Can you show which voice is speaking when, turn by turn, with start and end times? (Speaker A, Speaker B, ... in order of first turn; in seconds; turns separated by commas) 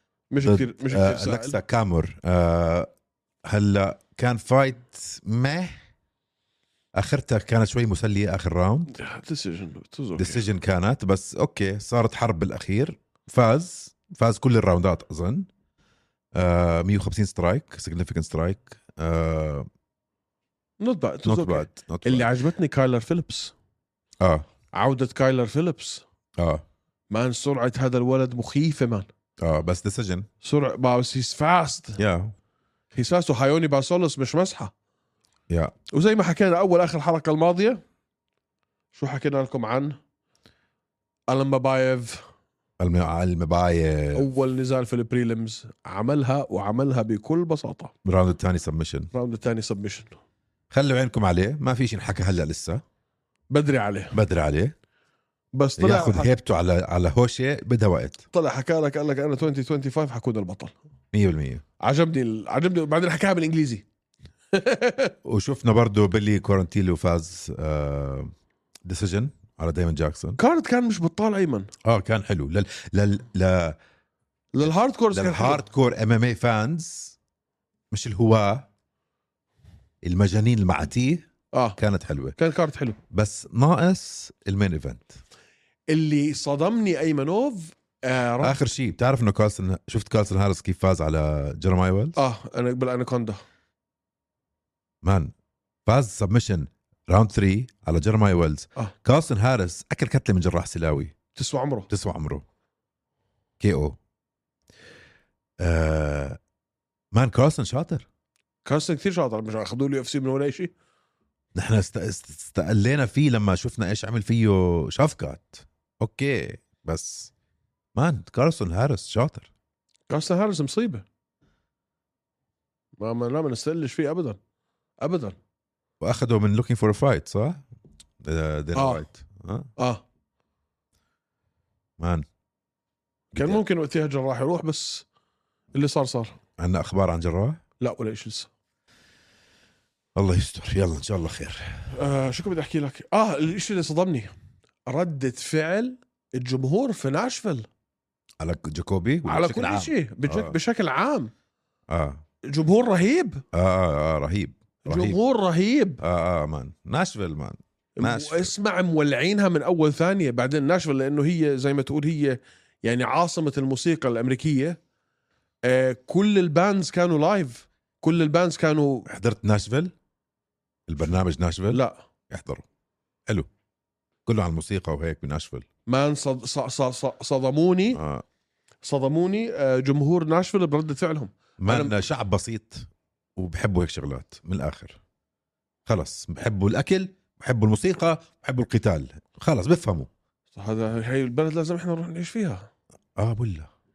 Speaker A: 0.3-1.6, Speaker B: 0.4-2.9, Speaker B: 3.5-5.8, Speaker B: 7.0-8.9, Speaker A: 8.9-10.4, Speaker B: 10.2-15.5, Speaker B: 16.4-19.7, Speaker A: 20.8-23.5, Speaker B: 21.2-22.3, Speaker B: 24.2-24.5, Speaker A: 24.7-26.0, Speaker B: 26.4-26.6, Speaker A: 27.1-29.1, Speaker B: 29.4-30.3, Speaker A: 30.4-32.0, Speaker B: 32.0-32.3, Speaker A: 32.9-34.7, Speaker B: 35.5-35.8, Speaker A: 35.9-37.8, Speaker A: 39.0-40.0, Speaker A: 41.3-42.2, Speaker B: 42.8-44.3, Speaker A: 44.1-47.9, Speaker B: 48.0-49.1, Speaker A: 49.1-50.2, Speaker B: 50.7-52.8, Speaker A: 53.5-54.2, Speaker B: 54.1-54.8, Speaker A: 55.5-56.3, Speaker B: 55.8-58.2, Speaker A: 58.3-60.8, Speaker B: 61.1-61.6, Speaker A: 61.8-63.9, Speaker A: 64.5-65.2, Speaker B: 65.2-68.3, Speaker B: 68.9-70.4, Speaker A: 70.4-71.7, Speaker B: 71.8-73.8, Speaker A: 74.5-75.6, Speaker B: 75.1-77.2, Speaker B: 77.9-78.7, Speaker B: 80.0-82.4, Speaker A: 81.5-81.8, Speaker A: 82.4-83.0, Speaker B: 83.1-85.2, Speaker A: 85.9-88.6, Speaker B: 88.4-92.2, Speaker A: 92.2-93.4, Speaker B: 95.0-95.3, Speaker B: 95.9-101.1, Speaker A: 101.3-101.9, Speaker B: 101.9-102.5, Speaker B: 103.6-104.0, Speaker B: 105.6-106.4, Speaker B: 107.1-108.1, Speaker A: 108.7-110.7, Speaker B: 111.5-117.3, Speaker B: 118.0-119.5, Speaker A: 120.1-121.0, Speaker A: 123.0-124.4, Speaker A: 125.0-125.4, Speaker B: 126.0-127.6, Speaker B: 128.2-129.7, Speaker A: 128.8-129.1, Speaker A: 129.8-130.0, Speaker B: 132.0-132.2, Speaker B: 133.3-133.6, Speaker A: 133.3-135.1, Speaker A: 135.7-136.3, Speaker B: 136.6-137.6, Speaker A: 137.8-138.5, Speaker B: 140.2-141.9, Speaker A: 141.9-144.3, Speaker A: 144.9-147.7, Speaker B: 148.4-150.6, Speaker A: 149.3-151.3, Speaker B: 151.9-152.2, Speaker A: 152.4-153.4, Speaker B: 153.5-155.2, Speaker A: 154.8-156.0, Speaker B: 156.0-158.5, Speaker A: 158.0-164.8, Speaker A: 165.6-169.1, Speaker B: 169.1-169.9, Speaker B: 170.9-172.7, Speaker A: 171.7-172.0, Speaker B: 174.3-175.7, Speaker A: 175.9-178.0, Speaker B: 177.9-178.2, Speaker A: 178.8-181.9, Speaker B: 181.6-185.0, Speaker B: 185.9-190.1, Speaker A: 190.5-192.7, Speaker B: 193.2-193.7